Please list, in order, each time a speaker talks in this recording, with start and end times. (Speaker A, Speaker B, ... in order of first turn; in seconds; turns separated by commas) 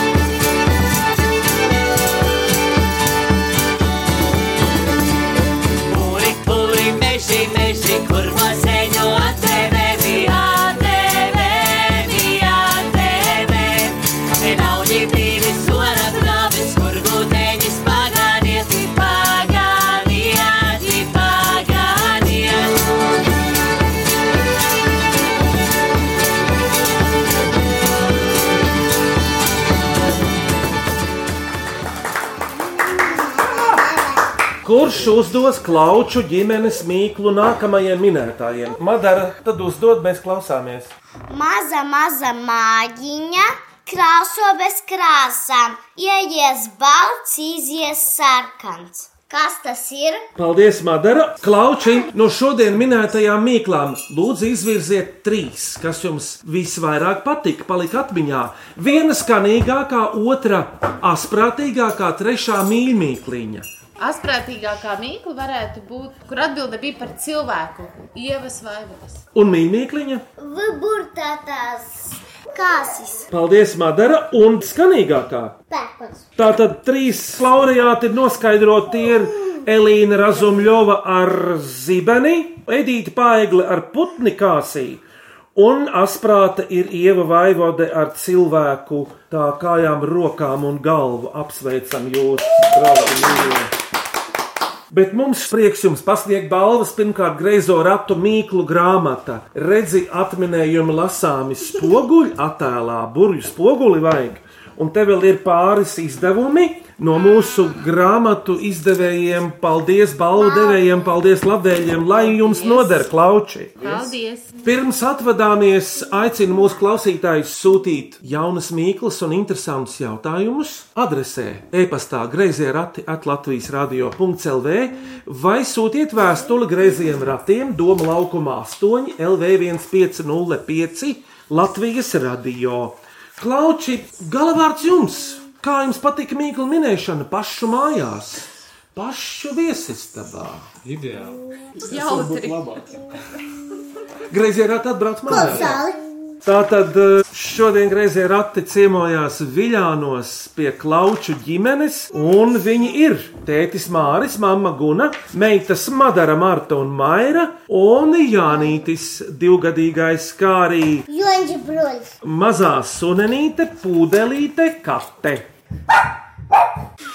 Speaker A: 5.9-22.9, Speaker B: 32.8-34.2, Speaker C: 34.6-40.9, Speaker B: 41.3-50.2, Speaker C: 50.4-63.7, Speaker D: 64.0-69.2, Speaker C: 69.3-70.2, Speaker B: 70.4-73.3, Speaker C: 73.3-75.6, Speaker B: 75.7-76.2, Speaker C: 76.4-85.0, Speaker C: 85.6-93.7, Speaker C: 94.9-114.0, Speaker D: 112.1-113.1, Speaker D: 113.8-114.6, Speaker C: 114.6-140.7, Speaker E: 140.8-143.0, Speaker D: 141.8-142.8, Speaker C: 144.3-145.8, Speaker B: 145.3-146.0, Speaker E: 145.3-145.7, Speaker C: 146.4-161.1, Speaker B: 161.1-162.1, Speaker C: 162.2-165.4